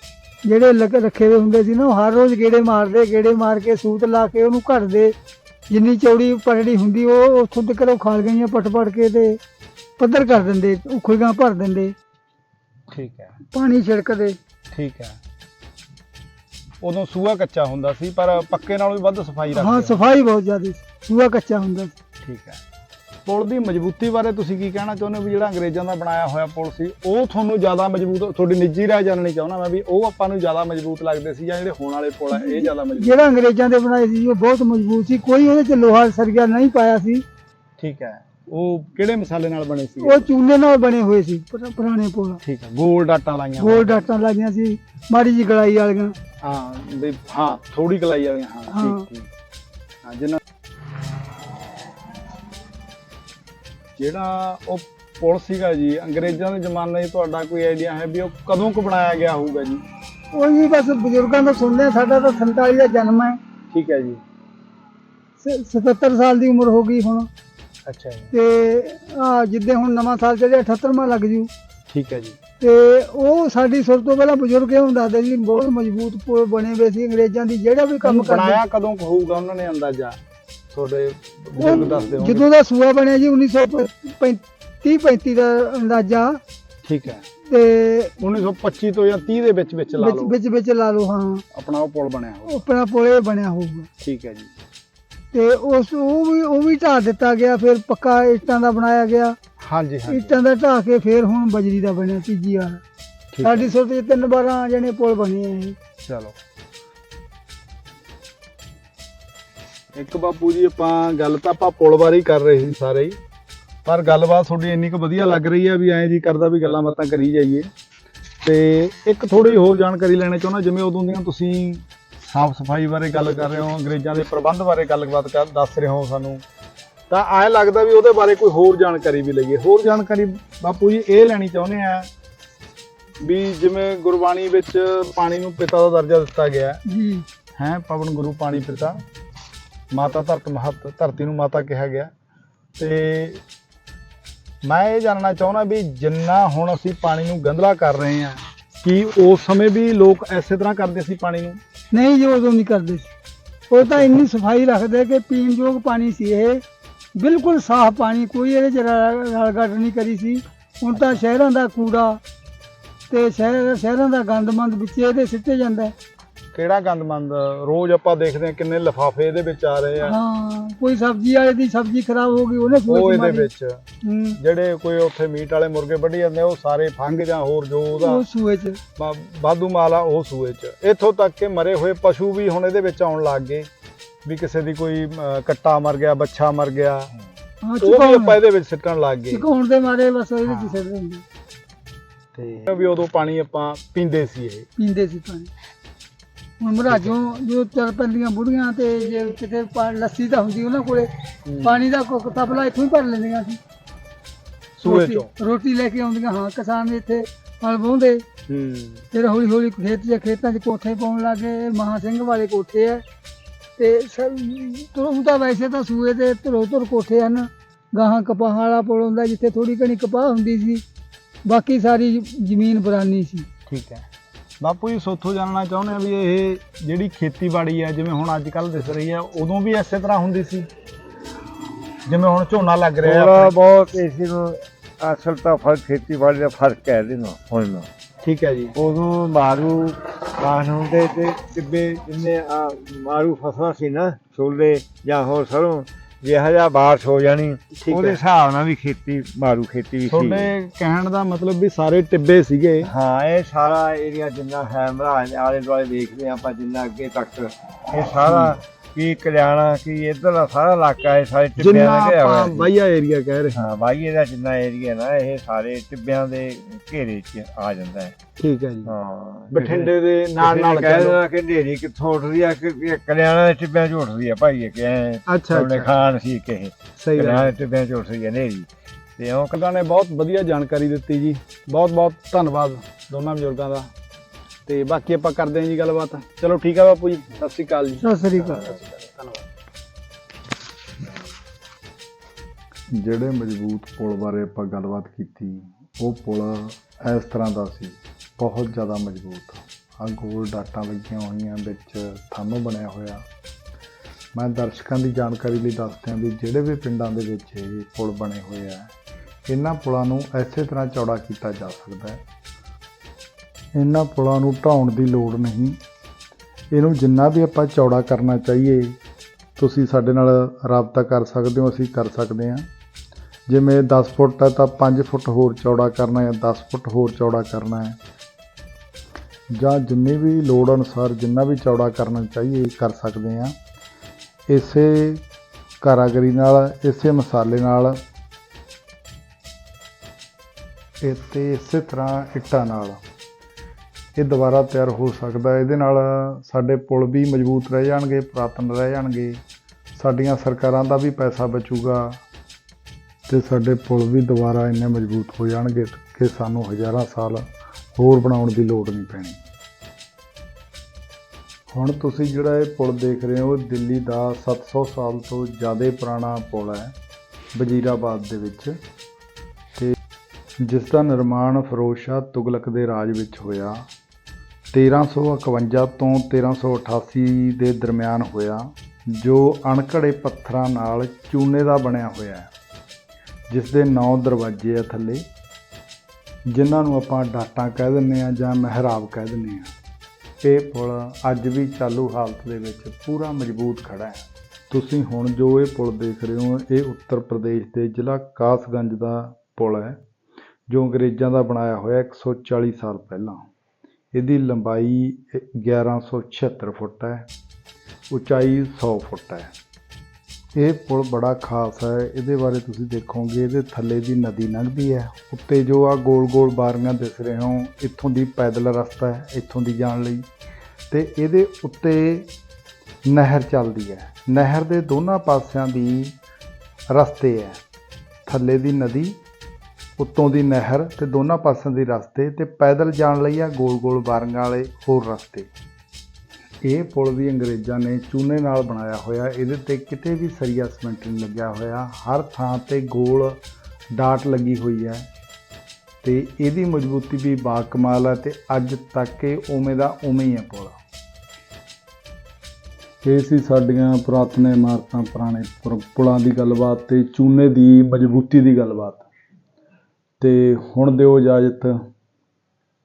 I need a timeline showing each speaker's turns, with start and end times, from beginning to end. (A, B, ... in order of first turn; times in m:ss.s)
0:00.4-0:05.1 A
0:05.7-0:09.4 A
0:10.0-0:11.9 A
0:12.9-0:13.3 B
0:13.5-0:14.4 A
0:14.7-0:15.2 B
0:16.8-0:20.1 B
0:19.6-0:22.0 A
0:22.2-0:22.6 B
0:23.2-0:33.2 B
0:32.3-0:37.2 A
0:37.8-0:40.3 B
0:40.0-0:42.4 A
0:42.4-0:44.0 B
0:43.6-0:46.1 A
0:46.4-0:49.3 B
0:48.7-0:49.0 A
0:50.0-0:50.4 B
0:54.0-0:59.8 B
1:00.3-1:03.4 A
1:03.7-1:04.2 B
1:05.4-1:07.3 A
1:07.9-1:08.3 B
1:08.3-1:11.5 A
1:11.9-1:12.4 B
1:12.6-1:18.6 A
1:18.0-1:20.2 B
1:20.7-1:22.5 B
1:21.6-1:26.4 A
1:26.8-1:27.2 B
1:27.5-1:28.1 A
1:28.2-1:30.3 B
1:30.0-1:31.4 A
1:31.5-1:32.6 B
1:32.5-1:33.9 A
1:34.0-1:34.5 B
1:35.3-1:39.4 A
1:39.6-1:40.4 B
1:40.1-1:42.8 A
1:43.3-1:43.7 B
1:43.4-1:45.8 A
1:46.0-1:46.3 B
1:49.9-1:53.2 B
1:53.8-1:57.7 B
1:58.4-2:06.4 B
2:07.1-2:12.1 B
2:13.2-2:16.8 B
2:16.9-2:17.2 A
2:17.6-2:19.0 B
2:19.9-2:22.1 B
2:22.8-2:23.4 B
2:24.6-2:31.6 B
2:31.9-2:33.1 A
2:33.7-2:36.6 A
2:33.8-2:34.1 B
2:37.2-2:42.2 A
2:40.9-2:41.2 B
2:43.1-2:45.9 A
2:46.5-2:50.2 B
2:50.0-2:53.5 A
2:52.9-2:53.8 B
2:54.0-2:54.4 A
2:54.4-2:58.2 B
2:58.0-2:58.8 A
2:59.0-3:03.7 B
3:04.2-3:07.1 B
3:07.6-3:08.4 A
3:07.8-3:09.4 B
3:09.3-3:11.2 A
3:10.4-3:10.8 B
3:12.3-3:14.7 B
3:14.8-3:15.5 A
3:16.6-3:21.1 A
3:16.9-3:17.1 B
3:21.4-3:21.8 B
3:21.6-3:23.6 A
3:24.8-3:25.3 B
3:24.8-3:28.2 A
3:28.5-3:29.1 B
3:29.1-3:33.0 A
3:33.8-3:40.8 A
3:41.4-3:43.5 A
3:43.7-3:44.0 B
3:44.6-3:50.7 B
3:52.1-3:53.5 B
3:53.0-3:57.9 C
3:58.2-3:58.7 B
3:58.8-4:10.5 C
4:07.8-4:08.2 B
4:10.1-4:12.9 B
4:12.8-4:22.7 C
4:18.3-4:18.5 B
4:21.6-4:23.6 B
4:23.5-4:28.1 C
4:28.4-4:28.9 B
4:28.8-4:39.6 C
4:29.5-4:31.2 B
4:35.3-4:35.9 B
4:37.0-4:37.5 B
4:39.5-4:43.9 B
4:44.6-4:49.4 B
4:48.0-4:48.7 A
4:53.0-5:03.2 B
5:04.3-5:08.9 B
5:09.5-5:12.2 B
5:13.7-5:15.8 B
5:16.7-5:19.0 B
5:19.6-5:22.7 B
5:23.5-5:28.0 B
5:29.5-5:33.5 B
5:34.5-5:35.2 B
5:35.8-5:38.0 B
5:41.0-5:43.0 B
5:44.2-5:49.4 B
5:49.9-5:52.2 B
5:53.3-5:57.4 B
5:58.0-5:59.4 B
6:01.7-6:06.9 B
6:07.5-6:08.8 B
6:10.6-6:13.8 B
6:14.7-6:22.5 B
6:23.5-6:25.2 B
6:26.5-6:29.7 B
6:30.4-6:40.0 B
6:40.7-6:43.4 B
6:44.1-6:47.2 B
6:48.1-6:49.5 B
6:50.5-7:00.2 B
7:00.9-7:02.3 B
7:03.0-7:06.1 B
7:06.9-7:07.6 B
7:08.2-7:09.2 B
7:10.0-7:15.5 B
7:16.6-7:23.3 B
7:24.0-7:25.0 B
7:26.0-7:30.8 B
7:33.0-7:39.1 B
7:40.2-7:41.8 B